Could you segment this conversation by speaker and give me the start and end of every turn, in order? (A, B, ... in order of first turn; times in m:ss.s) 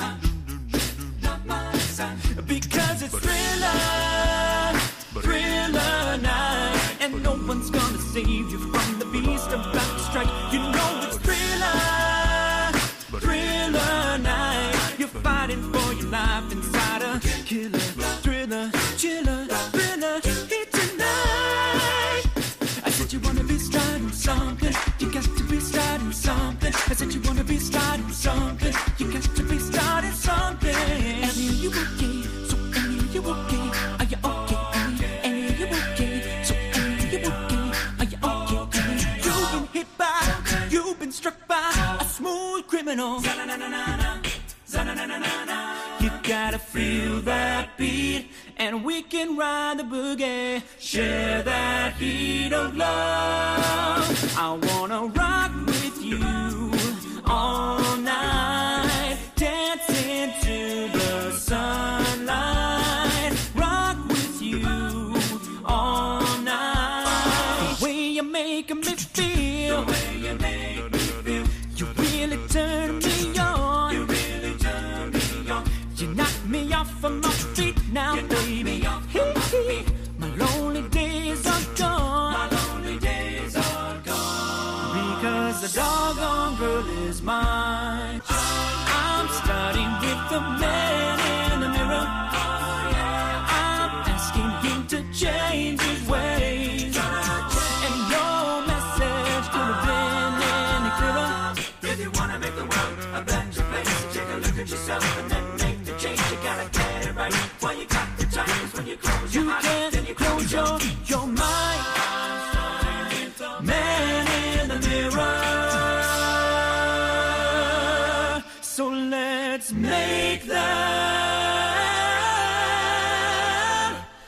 0:01.2-0:22.3 A
0:22.8-2:03.8 A